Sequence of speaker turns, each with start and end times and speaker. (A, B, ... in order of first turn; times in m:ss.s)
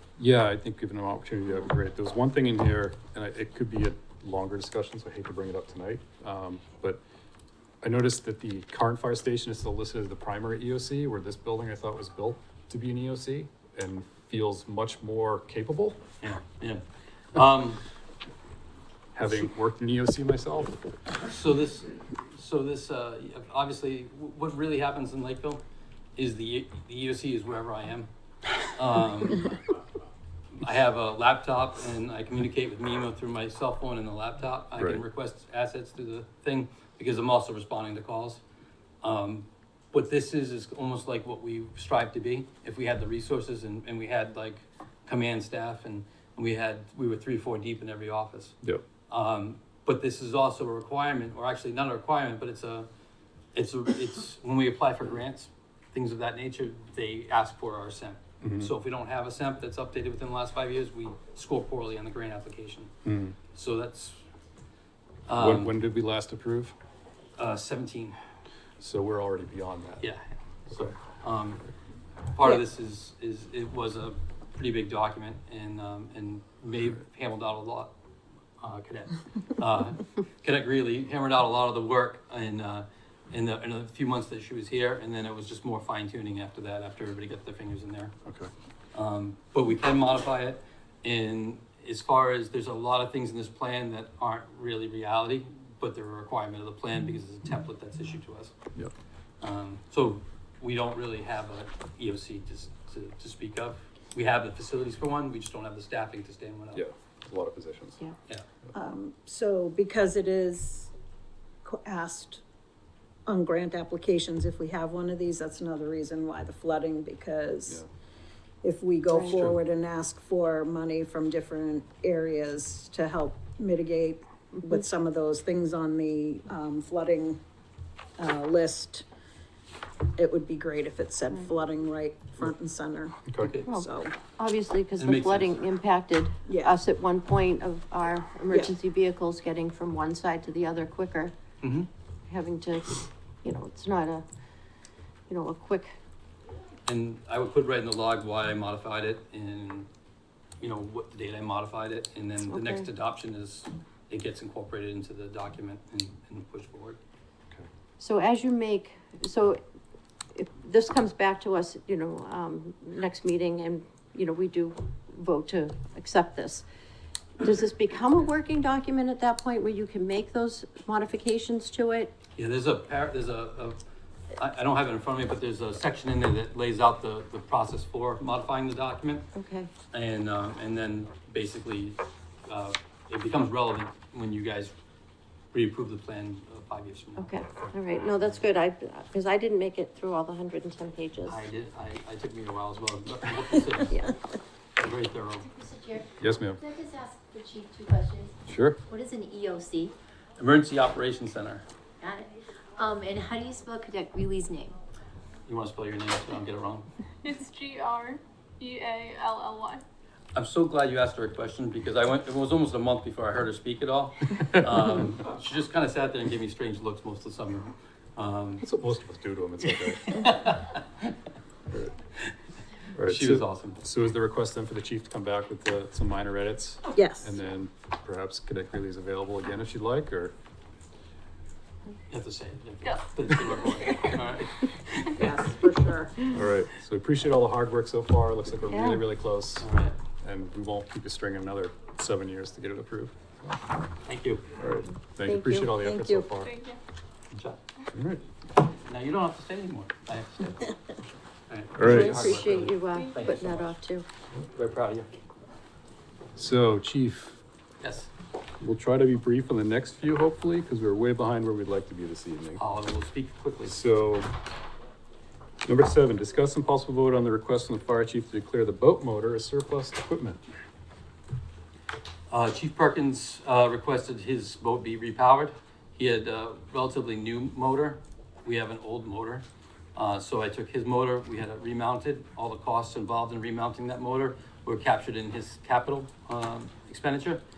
0:00.2-0:07.0 A
0:07.8-0:16.0 A
0:16.2-0:16.8 B
0:17.3-0:17.8 B
0:19.2-0:20.8 A
0:21.3-0:25.6 B
0:26.2-0:28.1 B
0:28.7-0:29.6 B
0:30.6-0:38.4 B
0:34.8-0:35.0 A
0:39.0-0:48.6 B
0:49.1-0:52.9 B
0:53.6-1:02.9 B
0:58.4-0:58.7 A
1:03.0-1:03.4 A
1:03.5-1:04.2 B
1:05.3-1:05.8 B
1:05.4-1:06.8 A
1:07.4-1:08.2 B
1:08.8-1:10.1 A
1:10.0-1:11.7 B
1:12.3-1:17.9 B
1:18.6-1:28.2 B
1:28.2-1:28.5 A
1:28.9-1:38.5 B
1:39.4-1:46.8 B
1:46.7-1:48.0 A
1:48.7-1:50.9 C
1:51.6-1:52.4 C
1:53.3-1:57.8 C
1:58.6-2:07.4 C
1:59.1-1:59.4 D
2:08.2-2:09.0 C
2:10.2-2:14.2 C
2:13.3-2:13.6 A
2:13.4-2:13.7 B
2:14.4-2:21.3 D
2:15.0-2:15.6 B
2:16.5-2:16.8 C
2:18.5-2:18.8 C
2:21.6-2:21.9 B
2:22.3-2:24.2 D
2:25.3-2:26.0 D
2:26.9-2:29.9 B
2:30.6-2:37.0 B
2:32.4-2:32.9 D
2:38.0-2:39.6 D
2:40.4-2:46.6 D
2:47.4-2:52.1 D
2:52.4-2:53.8 B
2:54.4-2:59.3 B
2:59.4-2:59.7 D
2:59.9-3:04.7 B
3:05.5-3:07.5 B
3:07.2-3:11.4 D
3:11.2-3:14.0 B
3:13.9-3:14.2 D
3:14.8-3:15.5 B
3:15.5-3:20.0 E
3:16.2-3:16.6 A
3:18.5-3:18.8 A
3:20.4-3:21.7 B
3:22.0-3:24.8 E
3:25.5-3:26.9 B
3:27.2-3:29.8 F
3:30.4-3:38.7 B
3:38.6-3:40.2 A
3:39.8-3:41.1 B
3:43.0-3:50.3 A
3:43.0-3:43.8 B
3:46.9-3:47.4 C
3:52.1-3:55.4 B
3:53.6-3:53.9 F
3:55.2-3:56.3 C
3:56.3-3:59.7 A
3:58.7-3:59.0 D
3:59.6-4:00.0 B
4:00.2-4:03.6 A
4:04.1-4:04.6 B
4:04.6-4:06.6 A
4:05.2-4:05.8 D
4:05.8-4:06.3 C
4:06.4-4:06.8 F
4:07.3-4:07.6 B
4:07.9-4:08.2 A
4:08.8-4:10.7 B
4:11.5-4:13.8 B
4:11.8-4:12.4 A
4:11.8-4:14.1 D
4:12.9-4:13.4 F
4:14.5-4:15.1 B
4:16.4-4:17.4 A
4:17.8-4:18.1 B
4:18.6-4:22.6 A
4:22.6-4:23.8 B
4:23.7-4:24.3 A
4:25.6-4:30.4 A
4:32.3-4:47.4 B